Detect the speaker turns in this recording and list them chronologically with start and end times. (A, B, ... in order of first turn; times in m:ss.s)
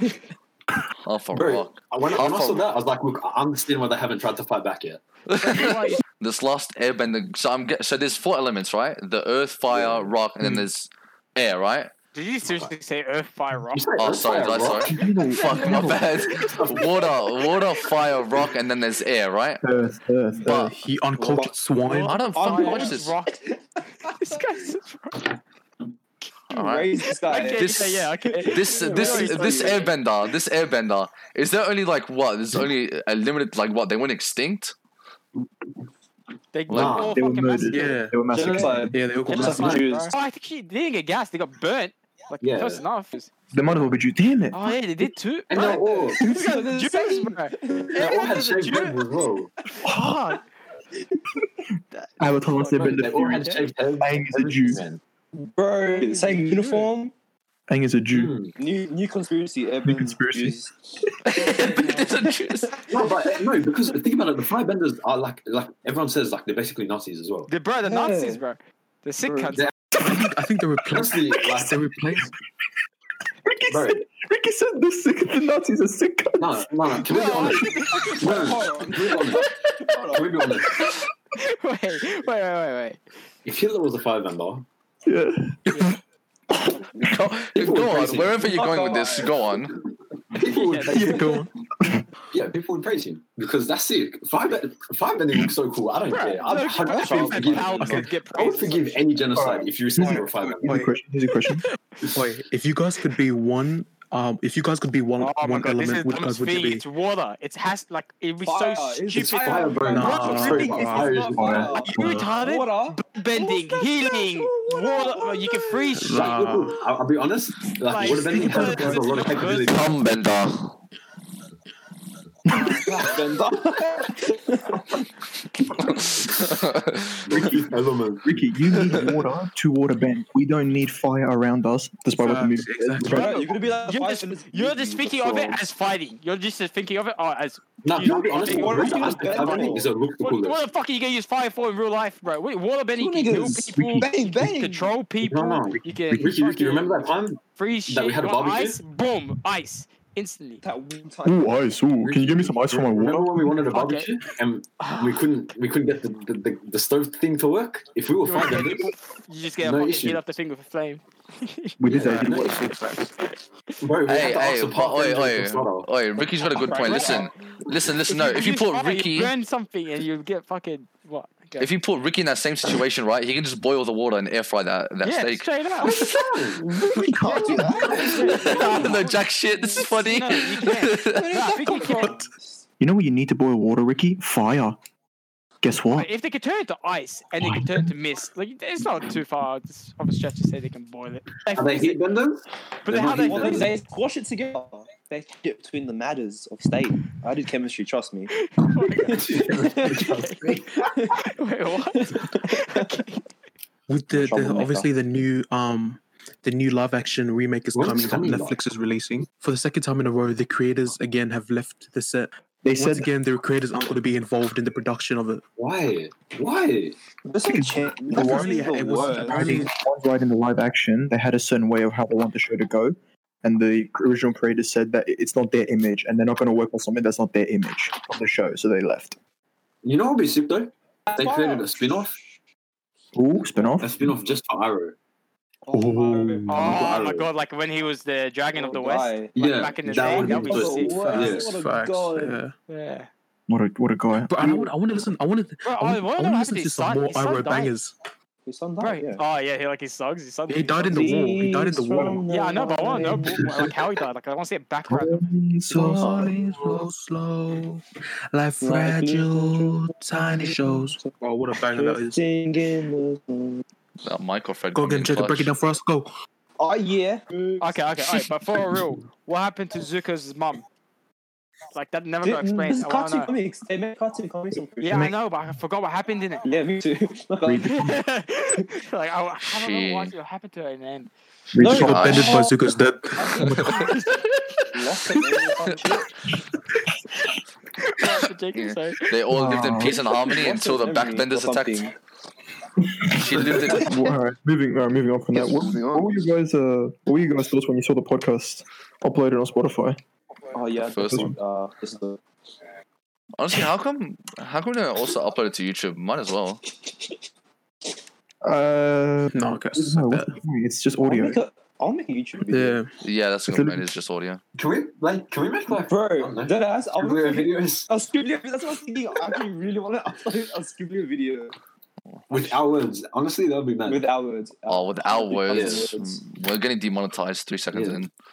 0:01.0-0:02.7 A
0:01.3-0:05.0 B
0:05.3-0:11.9 A
0:05.4-0:06.0 C
0:09.7-0:10.1 B
0:10.4-0:10.6 D
0:12.1-0:13.8 C
0:12.4-0:12.7 B
0:13.7-0:14.9 B
0:14.0-0:19.6 A
0:14.8-0:16.1 D
0:15.3-0:16.5 C
0:15.8-0:17.6 B
0:19.6-0:20.5 D
0:20.4-0:22.2 E
0:20.5-0:24.4 F
0:21.8-0:23.4 C
0:22.0-0:23.1 A
0:24.0-0:25.3 C
0:26.5-0:27.7 F
0:26.5-0:34.7 A
0:27.3-0:29.9 C
0:28.3-0:29.9 F
0:36.5-0:38.0 C
0:36.7-0:37.2 A
0:36.7-0:37.2 B
0:37.1-0:38.9 D
0:37.7-0:38.3 E
0:38.3-0:40.2 F
0:38.9-0:39.8 E
0:39.2-0:43.3 C
0:39.3-0:40.0 B
0:42.4-0:42.8 B
0:43.5-0:44.8 D
0:44.5-0:49.0 C
0:45.5-0:46.2 B
0:45.6-0:48.4 F
0:48.0-0:49.5 B
0:49.8-0:50.4 C
0:52.2-0:54.8 D
0:52.6-0:55.0 B
0:55.3-0:57.1 F
0:55.8-0:56.9 C
0:57.7-0:58.3 D
0:58.1-0:58.6 B
0:58.6-1:00.7 F
0:59.8-1:00.6 D
1:01.2-1:02.8 A
1:01.3-1:02.2 C
1:01.4-1:02.2 F
1:02.9-1:07.5 B
1:07.5-1:09.7 C
1:07.8-1:08.4 F
1:09.3-1:09.6 F
1:09.9-1:12.3 E
1:10.9-1:11.8 B
1:13.4-1:17.0 D
1:13.7-1:14.0 B
1:16.4-1:19.5 B
1:17.0-1:18.6 C
1:17.4-1:20.4 F
1:19.1-1:19.5 C
1:20.1-1:20.7 B
1:20.8-1:23.0 C
1:23.4-1:24.6 B
1:25.0-1:25.9 D
1:26.7-1:27.2 F
1:27.0-1:29.7 A
1:27.5-1:28.4 B
1:28.2-1:29.4 F
1:30.3-1:31.2 B
1:30.4-1:31.2 C
1:30.9-1:31.5 E
1:32.3-1:40.8 B
1:36.1-1:39.1 C
1:36.4-1:38.6 F
1:37.8-1:38.1 E
1:39.3-1:41.6 D
1:40.6-1:40.9 E
1:42.1-1:46.8 E
1:45.2-1:50.7 C
1:48.4-1:56.0 F
1:49.2-1:51.8 B
1:49.9-1:51.1 E
1:51.3-1:52.2 D
1:51.9-1:52.2 E
1:51.9-1:56.4 C
1:56.0-1:56.8 E
1:56.1-2:00.0 B
1:57.9-1:59.9 C
1:59.6-2:00.8 A
2:02.5-2:02.8 D
2:02.5-2:05.0 F
2:02.5-2:02.8 C
2:05.9-2:07.2 A
2:07.2-2:08.3 B
2:07.3-2:07.7 D
2:08.2-2:13.3 D
2:12.1-2:13.3 E
2:13.0-2:15.6 F
2:13.1-2:26.9 C
2:17.8-2:20.6 B
2:18.1-2:19.9 F
2:22.9-2:24.9 F
2:23.4-2:24.1 D
2:25.2-2:28.8 B
2:27.5-2:30.6 C
2:30.6-2:31.5 F
2:31.2-2:33.6 D
2:32.0-2:38.9 B
2:33.7-2:34.1 C
2:34.8-2:35.2 C
2:38.3-2:43.4 C
2:39.6-2:40.2 B
2:41.8-2:43.0 D
2:41.9-2:42.7 B
2:43.8-2:45.9 B
2:44.0-2:49.3 A
2:46.5-2:47.4 F
2:46.8-2:47.3 C
2:48.1-2:51.7 C
2:51.6-2:56.3 A
2:55.0-2:56.0 C
2:55.8-2:58.6 B
2:56.6-2:59.2 F
2:57.2-2:59.2 C
2:58.2-3:01.3 A
2:59.8-3:02.2 C
2:59.8-3:02.6 F
3:02.0-3:02.2 E
3:02.8-3:04.8 D
3:05.6-3:06.1 D
3:05.9-3:12.0 C
3:07.4-3:07.9 D
3:11.5-3:13.8 B
3:12.8-3:13.7 C
3:12.9-3:18.4 F
3:18.4-3:20.5 C
3:19.1-3:20.7 B
3:19.1-3:20.1 F
3:20.7-3:21.2 F
3:21.1-3:23.2 C
3:21.9-3:22.9 F
3:23.9-3:35.4 E
3:24.1-3:24.9 F
3:27.7-3:28.6 B
3:32.6-3:33.1 D
3:35.6-3:37.0 B
3:37.2-3:39.6 F
3:37.5-3:38.6 D
3:38.1-3:39.8 E
3:39.2-3:49.2 D
3:49.8-3:52.2 B
3:51.1-3:52.1 F
3:53.1-3:54.2 D
3:53.8-3:55.0 B
3:55.6-3:57.1 F
3:55.7-3:56.6 E
3:56.5-3:57.3 B
3:56.5-4:00.9 C
3:58.5-4:02.4 F
3:59.4-4:01.5 B
4:00.9-4:02.5 E
4:02.7-4:03.1 C
4:03.5-4:04.7 D
4:04.3-4:08.0 E
4:04.4-4:04.7 F
4:05.6-4:07.7 C
4:08.4-4:09.2 F
4:08.8-4:11.1 C
4:10.5-4:12.2 E
4:10.9-4:13.6 F
4:12.3-4:15.2 C
4:14.9-4:16.4 D
4:15.7-4:22.2 E
4:18.6-4:23.6 F
4:24.0-4:25.5 A
4:24.7-4:26.1 E
4:26.6-4:27.8 F
4:27.6-4:30.6 C
4:31.7-4:33.3 C
4:32.2-4:35.1 F
4:34.8-4:36.5 C
4:36.4-4:37.9 F
4:37.4-4:37.9 D
4:37.6-4:41.1 C
4:39.4-4:40.1 A
4:41.5-4:42.1 D
4:41.6-4:42.6 F
4:41.6-4:44.0 E
4:41.7-4:42.4 A
4:43.2-4:44.0 F
4:43.6-4:44.3 C
4:44.7-4:46.1 F
4:47.8-4:49.2 C
4:49.1-4:51.8 A
4:49.3-4:50.0 D
4:49.8-4:51.9 F
4:52.8-5:00.0 D
4:53.1-4:54.0 A
4:55.3-4:56.2 F
5:00.5-5:02.2 F
5:00.8-5:01.4 A
5:03.4-5:06.6 A
5:08.4-5:11.4 D
5:09.3-5:10.4 E
5:11.0-5:12.8 F
5:12.5-5:12.9 E
5:13.0-5:14.4 A
5:13.5-5:13.8 D
5:14.6-5:17.9 B
5:15.9-5:21.5 F
5:22.3-5:24.0 B
5:23.8-5:26.2 F
5:24.7-5:28.1 A
5:25.5-5:25.9 B
5:27.7-5:28.0 B